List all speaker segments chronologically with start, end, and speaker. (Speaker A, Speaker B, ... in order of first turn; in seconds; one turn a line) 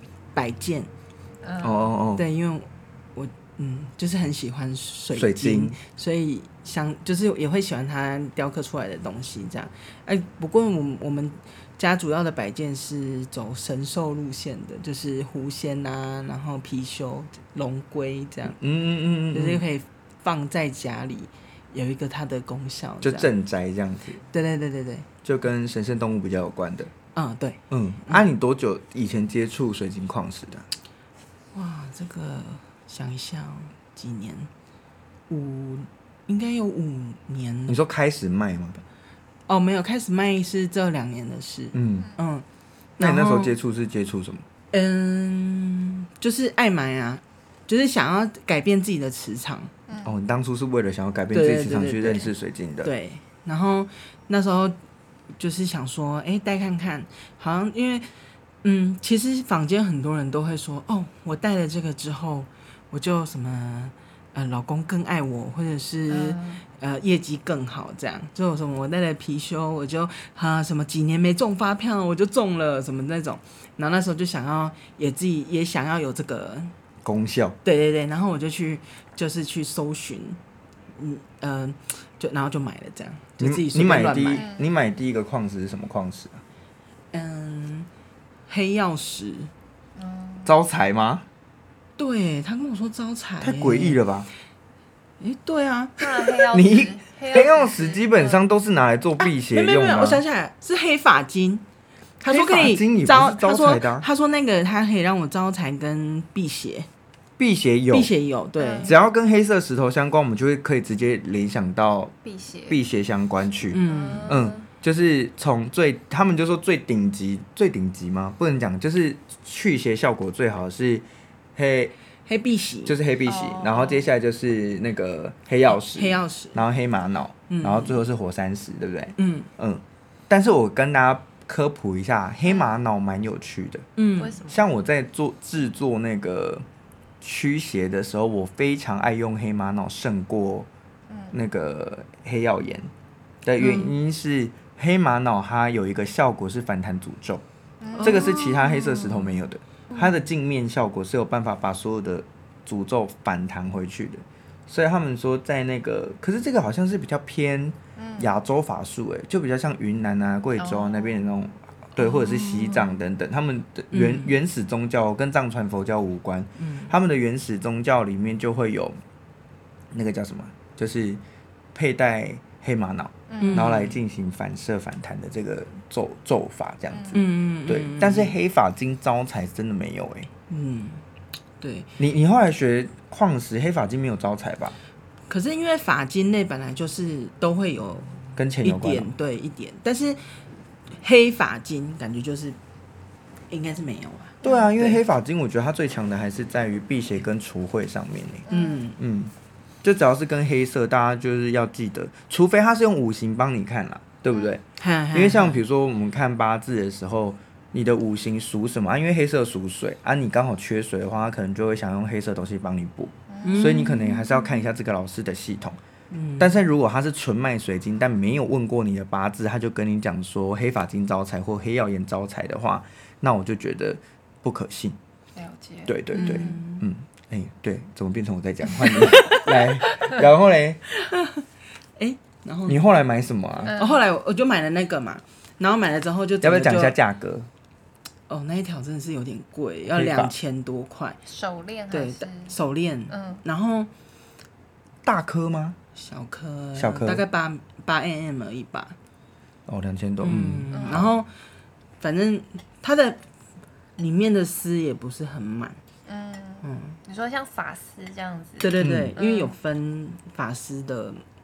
Speaker A: 0.3-0.9
Speaker B: 1.4-1.9
Speaker C: 1.6-2.2
Speaker A: 2.1-18.6
Speaker C: 5.1-5.8
Speaker C: 18.6-19.6
Speaker A: 19.3-23.3
Speaker C: 23.0-24.2
Speaker A: 24.3-25.1
Speaker C: 25.2-26.9
Speaker A: 27.1-28.2
Speaker C: 27.7-30.7
Speaker A: 31.5-34.5
Speaker A: 35.3-37.8
Speaker C: 37.7-38.8
Speaker A: 39.5-42.4
Speaker C: 41.7-42.1
Speaker A: 43.0-43.5
Speaker C: 43.0-44.4
Speaker A: 44.7-49.7
Speaker B: 49.9-50.1
Speaker C: 50.0-52.9
Speaker A: 51.3-52.3
Speaker A: 52.8-54.8
Speaker A: 55.4-58.1
Speaker A: 58.6-76.7
Speaker B: 66.1-66.6
Speaker C: 77.0-77.6
Speaker A: 77.6-80.4
Speaker A: 81.0-84.5
Speaker C: 83.4-86.4
Speaker B: 84.3-84.7
Speaker A: 87.1-87.9
Speaker A: 88.5-89.5
Speaker B: 90.0-90.5
Speaker C: 90.4-91.2
Speaker A: 92.0-94.0
Speaker C: 93.4-94.3
Speaker A: 95.2-96.4
Speaker B: 96.0-98.4
Speaker C: 96.5-100.2
Speaker A: 99.2-101.6
Speaker A: 102.2-106.9
Speaker C: 102.3-104.0
Speaker C: 107.4-108.1
Speaker A: 107.9-108.9
Speaker B: 108.6-108.9
Speaker C: 108.8-112.1
Speaker B: 112.2-112.8
Speaker C: 112.7-121.0
Speaker A: 113.7-114.4
Speaker B: 113.8-114.6
Speaker C: 121.5-121.9
Speaker A: 122.3-122.9
Speaker C: 122.8-133.8
Speaker B: 123.2-124.1
Speaker A: 125.7-126.6
Speaker A: 127.5-128.0
Speaker A: 129.2-129.5
Speaker B: 132.4-132.7
Speaker A: 134.0-134.4
Speaker B: 134.2-134.6
Speaker C: 134.4-136.6
Speaker C: 137.2-140.7
Speaker B: 141.1-141.3
Speaker C: 141.3-142.9
Speaker C: 143.4-147.4
Speaker A: 143.6-143.9
Speaker B: 147.8-148.4
Speaker A: 147.9-149.3
Speaker C: 148.0-169.0
Speaker B: 158.0-158.3
Speaker B: 160.6-161.2
Speaker A: 162.0-162.9
Speaker A: 163.9-164.3
Speaker A: 166.6-166.9
Speaker C: 169.9-171.2
Speaker C: 171.7-180.3
Speaker B: 173.3-173.7
Speaker A: 173.4-174.0
Speaker B: 176.9-177.2
Speaker A: 177.1-178.3
Speaker A: 180.5-181.0
Speaker A: 181.6-181.9
Speaker C: 182.0-184.7
Speaker A: 185.3-190.2
Speaker C: 188.4-189.1
Speaker A: 191.0-192.6
Speaker A: 193.5-195.0
Speaker C: 194.4-198.5
Speaker B: 198.5-198.9
Speaker A: 198.5-199.0
Speaker C: 199.0-199.3
Speaker C: 199.8-215.8
Speaker B: 204.3-204.6
Speaker A: 204.8-205.6
Speaker B: 213.3-213.8
Speaker A: 213.4-214.2
Speaker A: 216.1-216.5
Speaker C: 216.4-225.0
Speaker B: 225.3-226.5
Speaker C: 225.9-230.8
Speaker A: 226.1-226.8
Speaker A: 228.8-230.0
Speaker A: 230.9-231.4
Speaker A: 232.0-232.8
Speaker C: 232.7-233.7
Speaker B: 233.6-234.0
Speaker A: 233.7-236.9
Speaker C: 236.4-237.5
Speaker A: 238.3-241.2
Speaker C: 239.9-240.3
Speaker B: 241.2-242.5
Speaker A: 241.9-243.9
Speaker B: 243.1-243.4
Speaker C: 245.0-245.8
Speaker A: 245.9-248.9
Speaker C: 246.8-247.2
Speaker C: 249.7-251.1
Speaker A: 250.2-251.3
Speaker B: 250.7-251.0
Speaker A: 252.0-253.2
Speaker A: 254.0-255.8
Speaker B: 256.1-259.6
Speaker A: 256.6-257.0
Speaker A: 258.6-261.2
Speaker C: 258.8-259.1